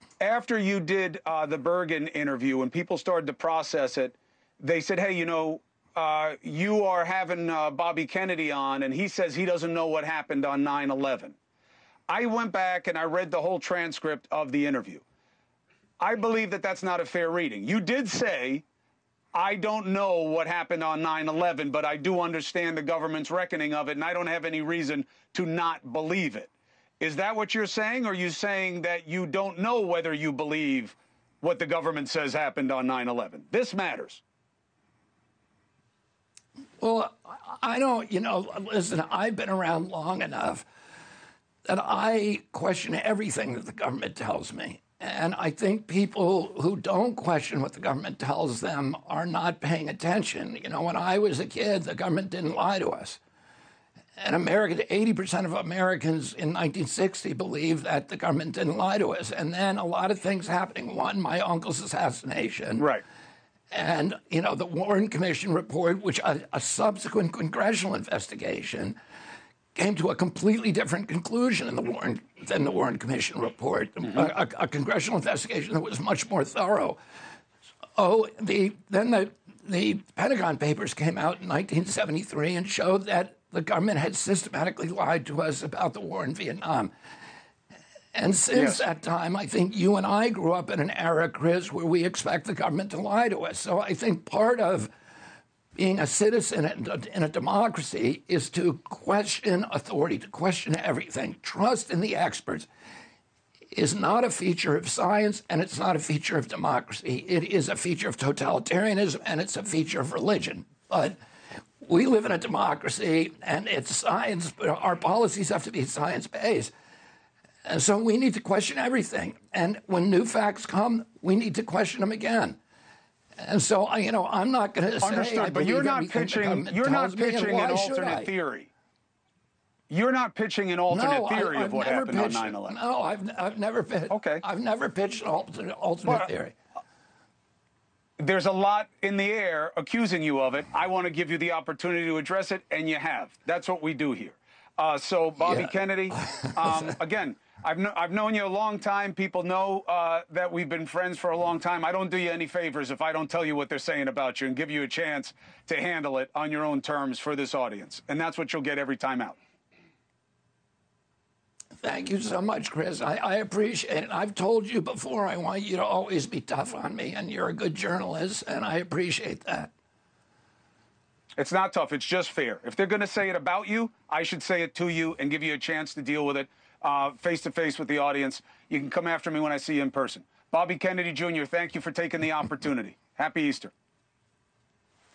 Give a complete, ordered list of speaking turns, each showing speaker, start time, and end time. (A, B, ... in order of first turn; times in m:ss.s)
0:00.2-0:11.4 A
0:12.1-0:15.0 A
0:16.0-0:18.6 A
0:19.3-0:26.5 A
0:27.0-0:34.2 A
0:36.8-0:40.7 B
0:41.7-0:53.2 B
0:54.2-1:02.9 B
1:02.8-1:03.0 A
1:03.7-1:09.0 B
1:09.8-1:17.0 B
1:18.0-1:26.9 B
1:28.1-1:34.9 B
1:28.5-1:28.8 A
1:35.8-1:42.7 B
1:43.7-1:51.2 B
1:51.8-1:56.7 B
1:57.6-2:02.6 B
2:03.4-2:08.3 B
2:05.0-2:08.7 A
2:09.9-2:12.8 A
2:10.9-2:16.6 B
2:14.1-2:14.4 A
2:18.2-2:39.4 A
2:25.4-2:26.9 B
2:41.8-2:49.7 B
2:51.4-3:03.7 A